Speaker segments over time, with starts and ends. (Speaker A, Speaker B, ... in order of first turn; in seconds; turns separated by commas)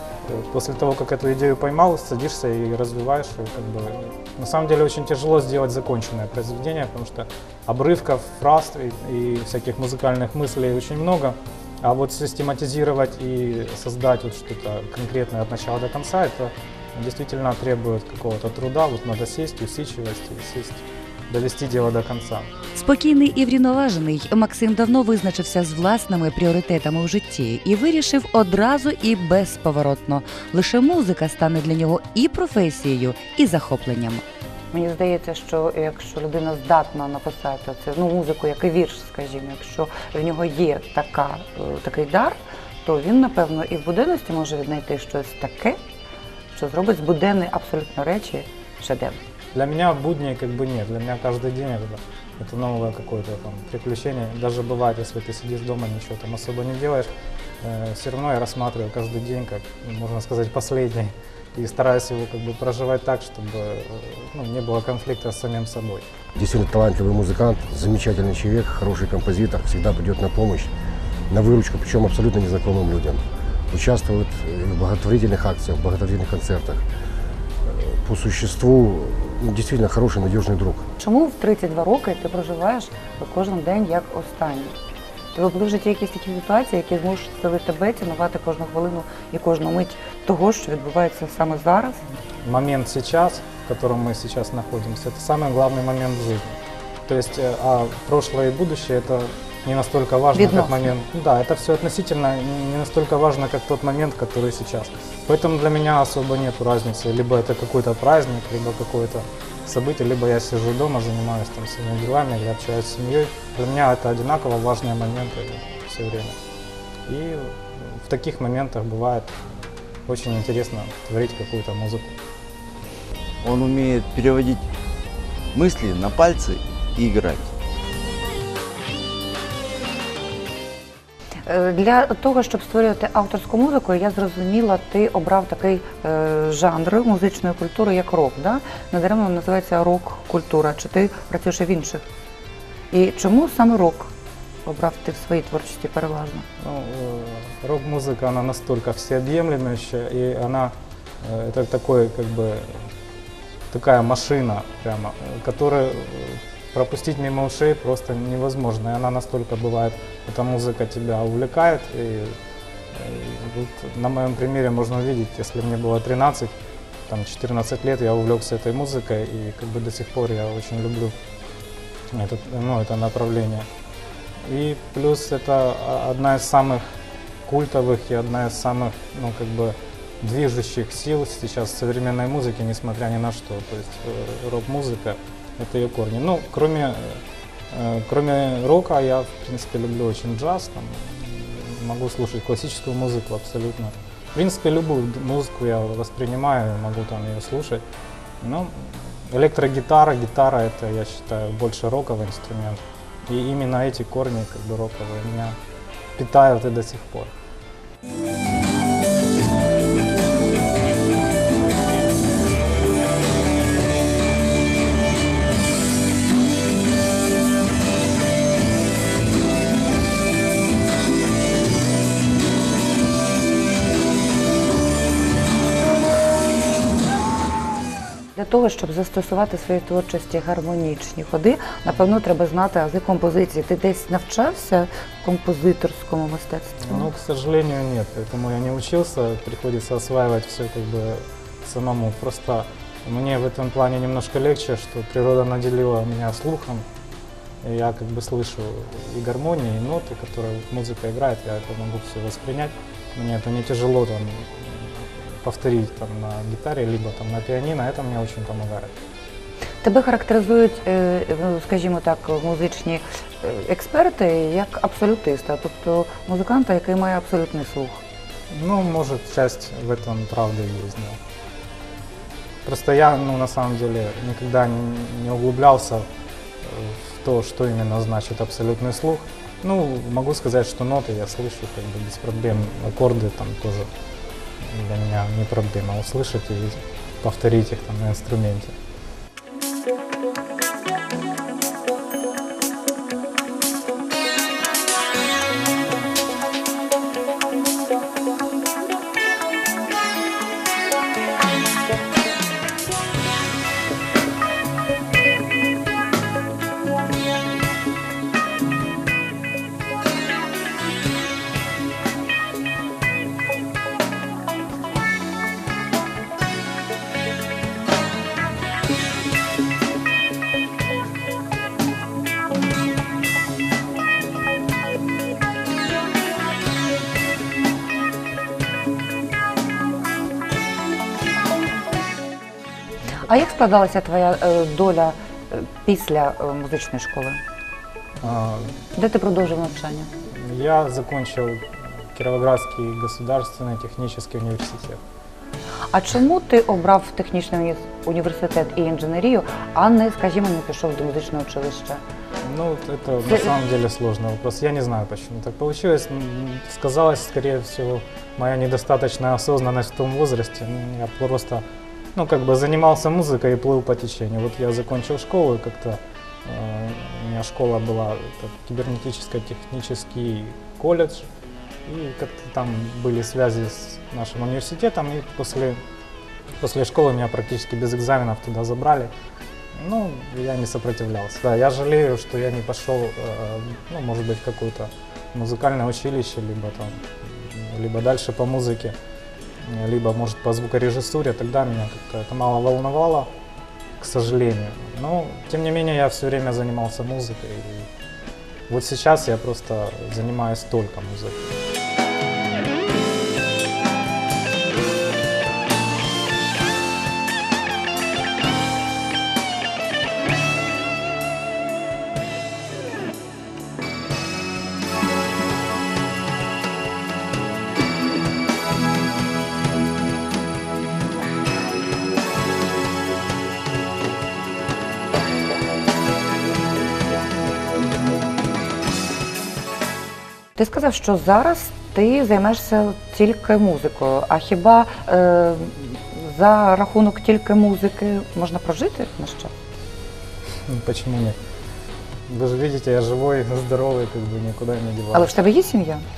Speaker A: 0.2-22.5, Speaker B: 22.7-34.2, Speaker C: 34.7-42.3, Speaker C: 42.9-45.7, Speaker C: 46.6-49.1, Speaker A: 49.5-57.1, Speaker A: 57.6-66.1, Speaker D: 66.3-70.7, Speaker D: 71.3-76.8, Speaker D: 77.6-80.9, Speaker C: 81.0-84.7, Speaker B: 81.3-81.9, Speaker B: 83.9-84.4, Speaker C: 85.4-91.9, Speaker B: 86.4-89.4, Speaker A: 92.4-116.3, Speaker A: 117.1-119.5, Speaker A: 120.1-122.2, Speaker E: 123.4-124.6, Speaker E: 125.5-127.5, Speaker B: 131.5-139.0, Speaker B: 140.2-140.4, Speaker B: 142.9-143.2, Speaker B: 144.7-146.3, Speaker A: 146.6-152.8, Speaker A: 153.7-162.3, Speaker A: 162.9-166.5, Speaker A: 167.1-171.1, Speaker A: 172.1-173.7, Speaker A: 174.4-176.8, Speaker A: 177.4-197.8, Speaker A: 198.4-205.6, Speaker A: 206.2-207.3, Speaker B: 228.4-236.8, Speaker A: 236.8-246.8, Speaker A: 247.6-258.9, Speaker B: 259.8-268.0, Speaker A: 268.5-271.2, Speaker A: 272.6-276.1, Speaker A: 276.6-283.9, Speaker A: 284.6-288.8, Speaker B: 333.5-337.3, Speaker A: 338.2-338.8, Speaker B: 339.0-340.0, Speaker A: 340.3-341.6, Speaker A: 342.1-345.0, Speaker B: 345.9-351.8, Speaker A: 352.4-371.3, Speaker A: 371.9-375.8, Speaker A: 376.6-379.1, Speaker A: 379.7-388.9, Speaker A: 389.6-393.3, Speaker A: 394.0-397.9, Speaker A: 398.7-401.5, Speaker B: 430.6-439.5, Speaker A: 440.7-441.4, Speaker A: 442.3-445.4